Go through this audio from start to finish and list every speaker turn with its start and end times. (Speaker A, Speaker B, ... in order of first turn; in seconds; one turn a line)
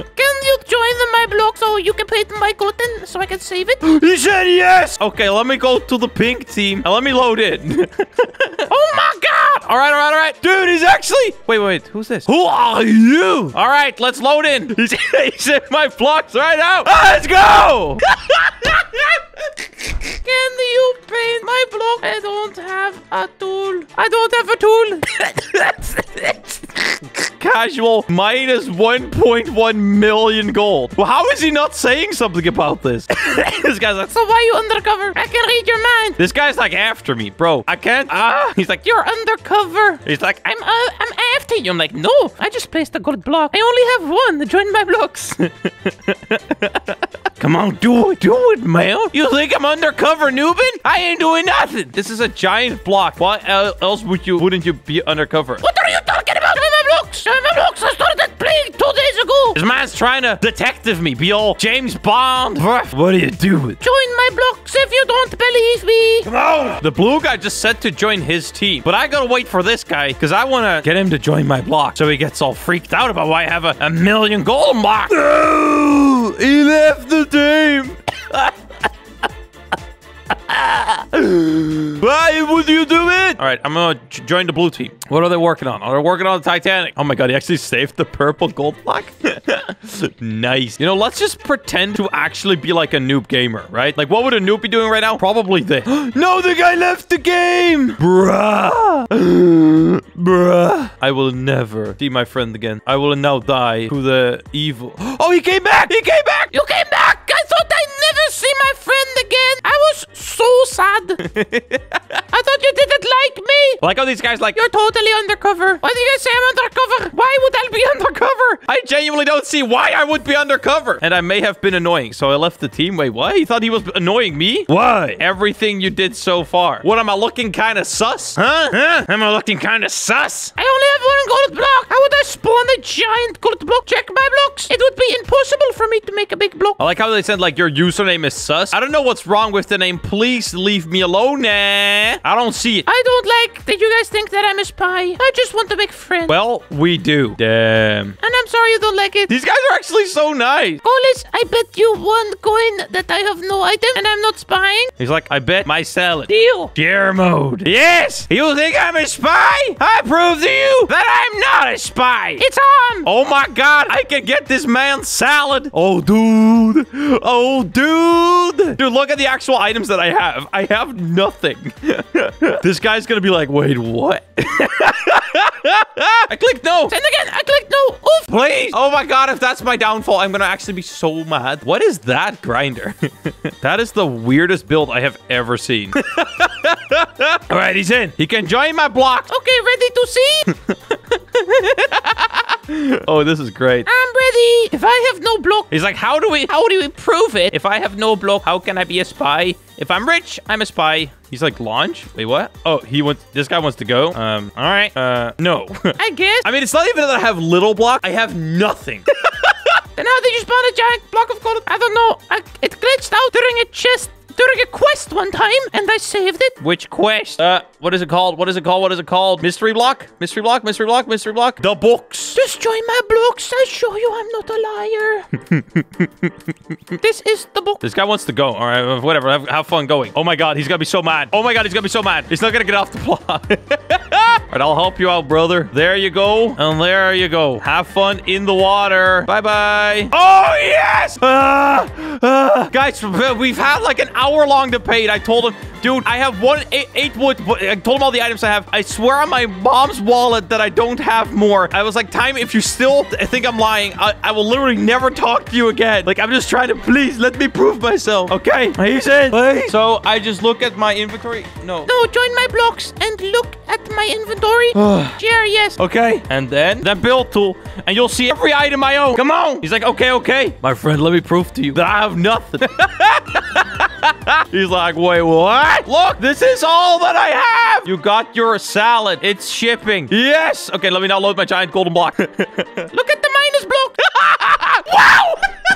Speaker A: 0.2-3.9
Speaker B: 3.8-8.7
Speaker A: 8.7-9.6
Speaker B: 9.5-19.1
Speaker A: 20.2-27.0
Speaker B: 27.2-34.1
Speaker A: 34.0-36.2
Speaker B: 36.2-39.0
Speaker A: 38.9-40.0
Speaker B: 40.0-40.6
Speaker A: 40.6-45.4
Speaker B: 45.4-55.6
Speaker A: 55.6-59.6
Speaker B: 59.5-63.8
Speaker A: 63.8-66.3
Speaker B: 66.2-78.5
Speaker B: 80.3-106.5
Speaker A: 106.5-111.2
Speaker B: 111.2-112.2
Speaker A: 112.3-113.8
Speaker B: 113.8-114.6
Speaker A: 114.5-118.6
Speaker B: 118.6-130.5
Speaker A: 130.6-136.8
Speaker B: 136.8-142.9
Speaker A: 142.9-146.3
Speaker B: 146.3-148.2
Speaker A: 148.2-149.3
Speaker B: 149.3-150.8
Speaker A: 150.8-154.9
Speaker B: 155.0-162.4
Speaker A: 156.3-156.7
Speaker A: 162.4-163.1
Speaker B: 163.0-177.0
Speaker A: 176.9-178.3
Speaker B: 178.3-189.3
Speaker A: 189.3-190.5
Speaker B: 190.5-193.9
Speaker A: 193.8-195.7
Speaker B: 195.7-209.7
Speaker A: 196.8-197.4
Speaker A: 206.0-206.5
Speaker A: 209.9-216.8
Speaker B: 216.6-222.4
Speaker A: 222.3-225.3
Speaker B: 225.4-226.3
Speaker A: 227.0-227.8
Speaker B: 227.8-261.9
Speaker A: 261.9-265.8
Speaker B: 264.7-265.2
Speaker B: 265.8-282.9
Speaker A: 282.9-285.4
Speaker B: 284.2-285.3